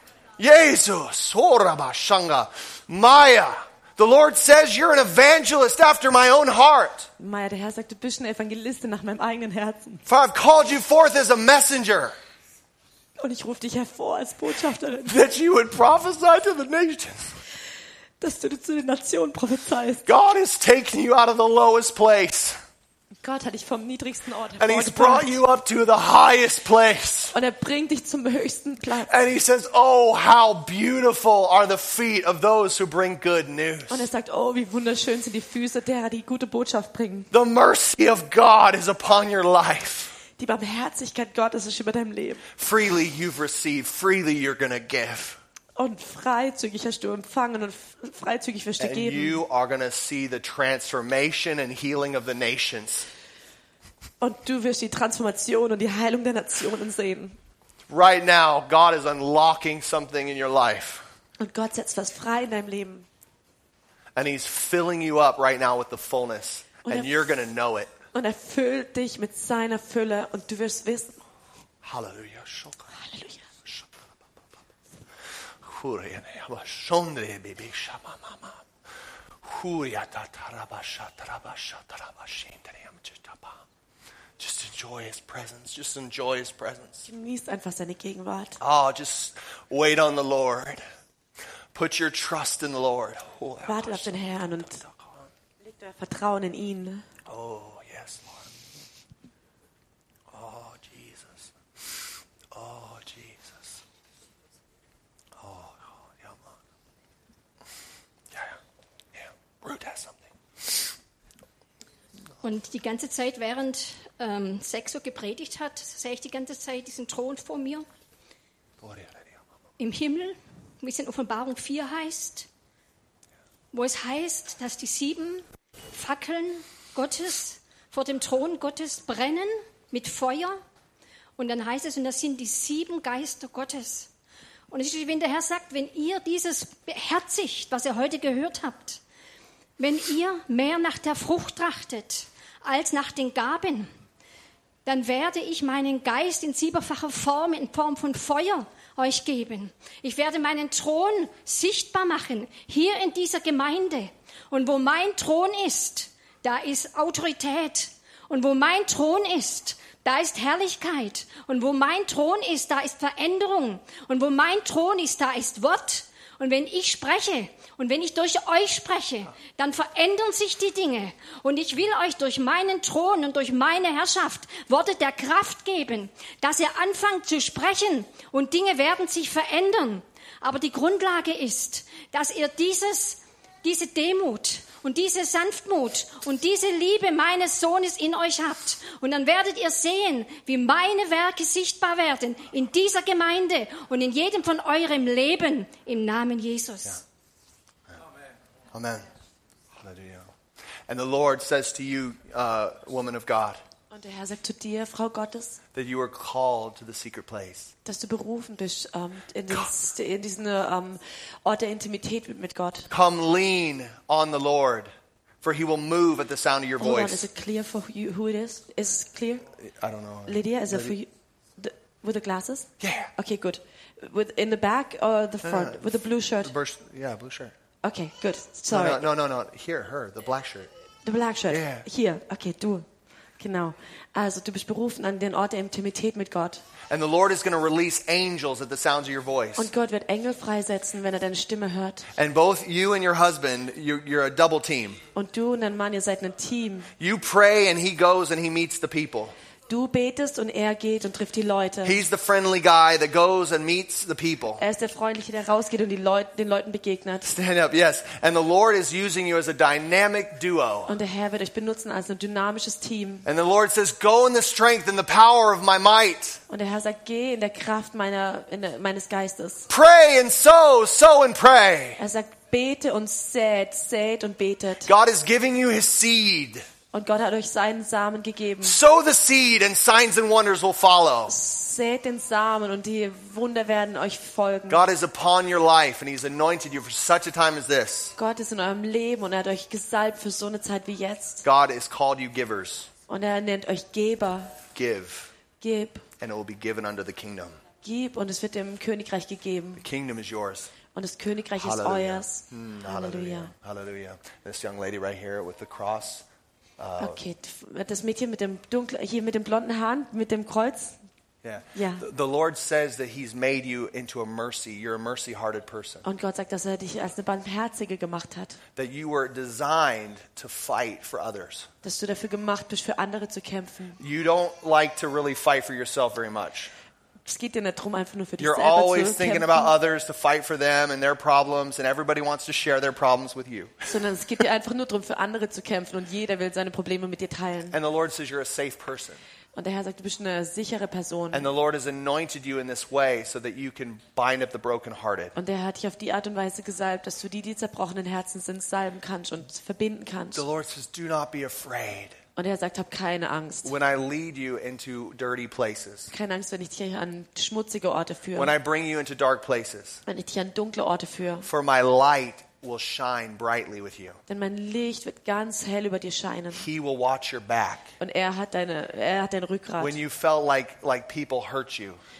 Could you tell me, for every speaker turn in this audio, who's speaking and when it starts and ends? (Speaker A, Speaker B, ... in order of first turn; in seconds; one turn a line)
Speaker A: 0.4-7.1
Speaker B: 7.2-10.0
Speaker A: 10.1-12.2
Speaker B: 13.2-15.2
Speaker A: 15.1-17.3
Speaker B: 18.2-20.0
Speaker A: 20.0-22.6
Speaker B: 23.2-25.3
Speaker A: 24.6-27.3
Speaker B: 27.3-29.1
Speaker A: 29.0-34.1
Speaker B: 33.9-37.3
Speaker A: 37.3-40.2
Speaker B: 40.4-42.5
Speaker A: 42.5-45.4
Speaker B: 45.8-49.4
Speaker A: 48.8-53.1
Speaker B: 54.2-57.4
Speaker A: 57.9-61.0
Speaker B: 61.4-63.1
Speaker A: 64.1-67.9
Speaker B: 66.8-67.4
Speaker B: 68.1-71.2
Speaker A: 71.8-72.9
Speaker B: 72.9-73.5
Speaker A: 73.6-74.0
Speaker A: 75.6-78.6
Speaker A: 79.4-83.6
Speaker A: 84.4-87.1
Speaker B: 87.0-88.6
Speaker A: 88.6-90.8
Speaker A: 91.7-95.3
Speaker B: 93.7-94.8
Speaker B: 95.6-97.0
Speaker A: 97.2-98.5
Speaker A: 100.3-101.5
Speaker A: 102.5-103.8
Speaker A: 105.3-106.6
Speaker A: 108.3-108.6
Speaker A: 109.1-110.8
Speaker C: 112.4-117.8
Speaker A: 118.8-119.4
Speaker C: 119.8-122.5
Speaker C: 123.7-130.6
Speaker C: 131.4-134.1
Speaker C: 134.7-139.0
Speaker C: 139.8-143.9
Speaker C: 144.8-197.0
Speaker A: 198.7-199.1
Speaker A: 199.7-200.3
Speaker A: 200.9-203.6
Speaker B: 203.9-205.6
Speaker A: 205.7-207.7
Speaker B: 207.8-212.9
Speaker A: 212.9-214.9
Speaker A: 215.4-217.3
Speaker B: 216.8-219.4
Speaker A: 219.6-220.9
Speaker B: 220.2-226.5
Speaker A: 222.8-223.1
Speaker A: 225.4-225.8
Speaker A: 226.4-227.5
Speaker B: 227.8-229.0
Speaker A: 228.7-230.7
Speaker B: 231.0-232.9
Speaker A: 231.5-231.8
Speaker B: 233.4-236.6
Speaker A: 236.9-239.7
Speaker B: 239.6-242.1
Speaker A: 242.1-245.0
Speaker B: 245.1-246.9
Speaker A: 247.0-249.3
Speaker B: 249.7-252.0
Speaker A: 251.8-254.6
Speaker B: 254.6-257.3
Speaker A: 257.2-260.9
Speaker B: 260.9-263.3
Speaker A: 263.2-266.4
Speaker B: 266.5-269.7
Speaker A: 269.7-272.0
Speaker B: 272.0-274.9
Speaker A: 274.8-276.6
Speaker B: 276.9-278.8
Speaker A: 278.6-281.4
Speaker B: 281.3-284.8
Speaker A: 284.7-288.1
Speaker B: 288.2-291.4
Speaker A: 291.4-292.9
Speaker B: 293.1-294.6
Speaker A: 294.7-295.3
Speaker B: 295.6-296.1
Speaker A: 296.2-297.6
Speaker B: 297.8-299.8
Speaker A: 299.8-300.7
Speaker B: 300.9-303.5
Speaker A: 301.5-306.2
Speaker A: 306.8-307.2
Speaker B: 307.0-311.0
Speaker A: 311.4-316.0
Speaker B: 311.7-312.0
Speaker B: 316.0-318.6
Speaker A: 318.8-321.7
Speaker B: 321.8-324.0
Speaker A: 324.0-326.7
Speaker B: 327.2-329.7
Speaker A: 328.4-333.9
Speaker B: 333.9-337.8
Speaker A: 337.7-339.2
Speaker B: 339.5-341.5
Speaker A: 341.3-345.3
Speaker B: 345.3-350.4
Speaker A: 350.3-352.2
Speaker B: 352.4-353.7
Speaker A: 353.6-356.1
Speaker B: 356.1-358.5
Speaker A: 358.3-360.0
Speaker B: 360.1-361.5
Speaker A: 361.4-364.2
Speaker B: 364.3-366.6
Speaker A: 366.6-367.9
Speaker B: 368.0-370.0
Speaker A: 369.8-372.0